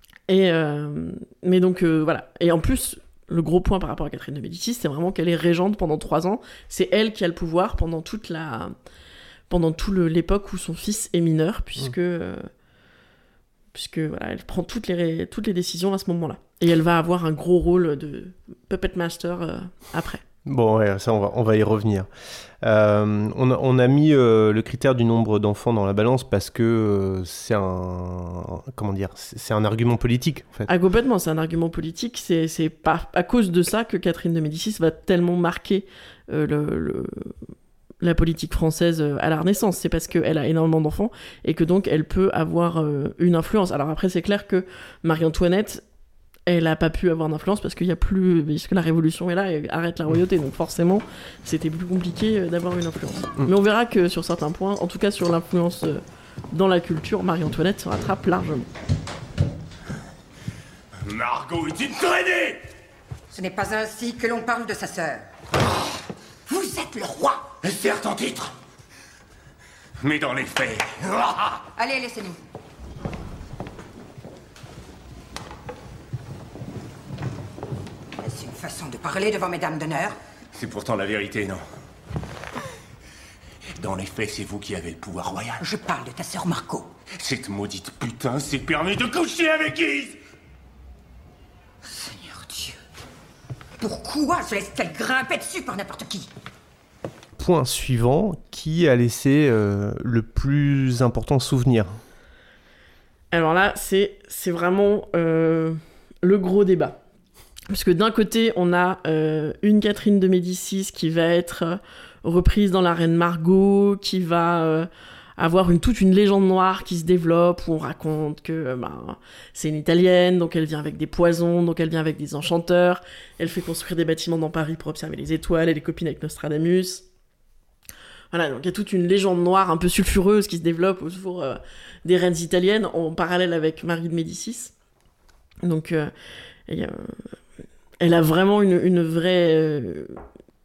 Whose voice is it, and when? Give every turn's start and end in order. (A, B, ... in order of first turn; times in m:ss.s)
0:00.3-0:08.7 A
0:09.5-0:12.5 A
0:13.7-0:20.2 A
0:20.4-0:22.1 B
0:22.6-0:30.7 B
0:30.7-0:37.4 A
0:38.0-0:45.8 A
0:46.5-0:58.7 A
1:01.0-1:02.6 C
1:03.3-1:05.3 D
1:06.5-1:07.5 D
1:07.6-1:08.5 C
1:10.0-1:11.6 C
1:11.8-1:12.4 D
1:18.2-1:20.2 D
1:20.6-1:21.6 C
1:23.8-1:25.6 C
1:25.6-1:26.9 D
1:27.1-1:30.2 C
1:31.8-1:32.8 D
1:33.8-1:36.3 D
1:37.4-1:42.0 B
1:43.3-1:47.0 A
1:47.7-2:07.0 A
2:08.3-2:14.7 A
2:15.6-2:16.1 A
2:16.7-2:17.2 A
2:18.0-2:20.2 A